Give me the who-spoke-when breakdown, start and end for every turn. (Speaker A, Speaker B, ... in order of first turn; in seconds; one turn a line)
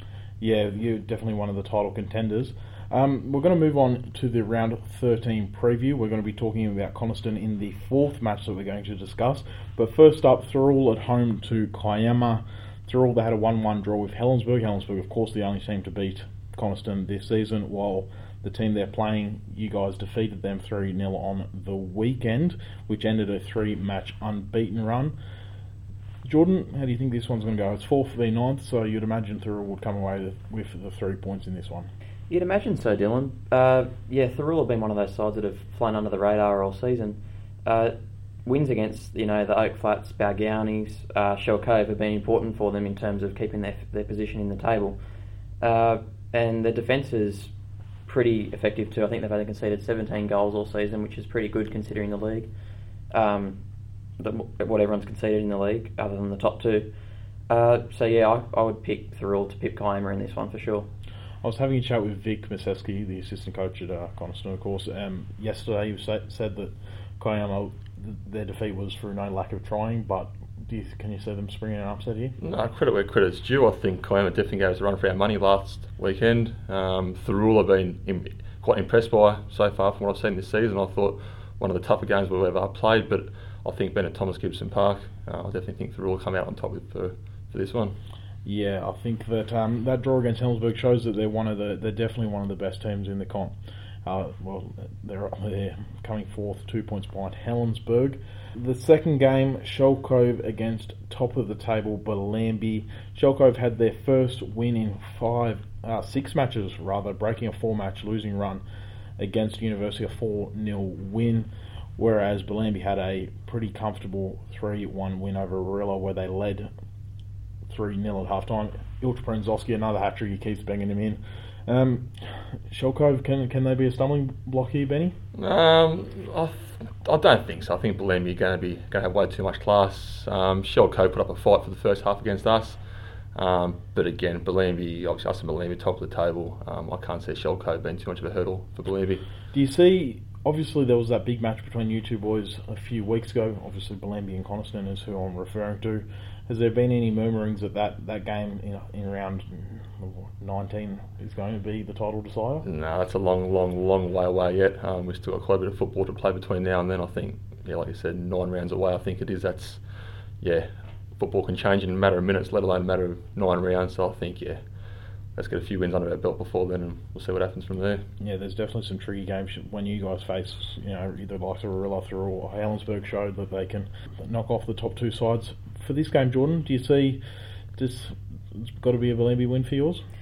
Speaker A: 0.4-25.1
Speaker A: 26.2-31.9
Speaker B: 32.3-45.0
Speaker B: 45.6-47.5
Speaker B: 48.0-52.5
Speaker B: 53.1-53.6
Speaker B: 54.2-56.9
Speaker B: 57.5-60.9
Speaker A: 61.4-72.3
Speaker C: 72.4-88.0
Speaker A: 88.4-108.6
Speaker A: 109.2-116.7
Speaker A: 117.7-125.2
Speaker C: 125.3-132.8
Speaker C: 133.3-139.2
Speaker A: 139.5-152.6
Speaker C: 152.6-159.8
Speaker C: 160.4-164.6
Speaker C: 165.3-168.0
Speaker A: 168.2-177.2
Speaker A: 177.8-180.0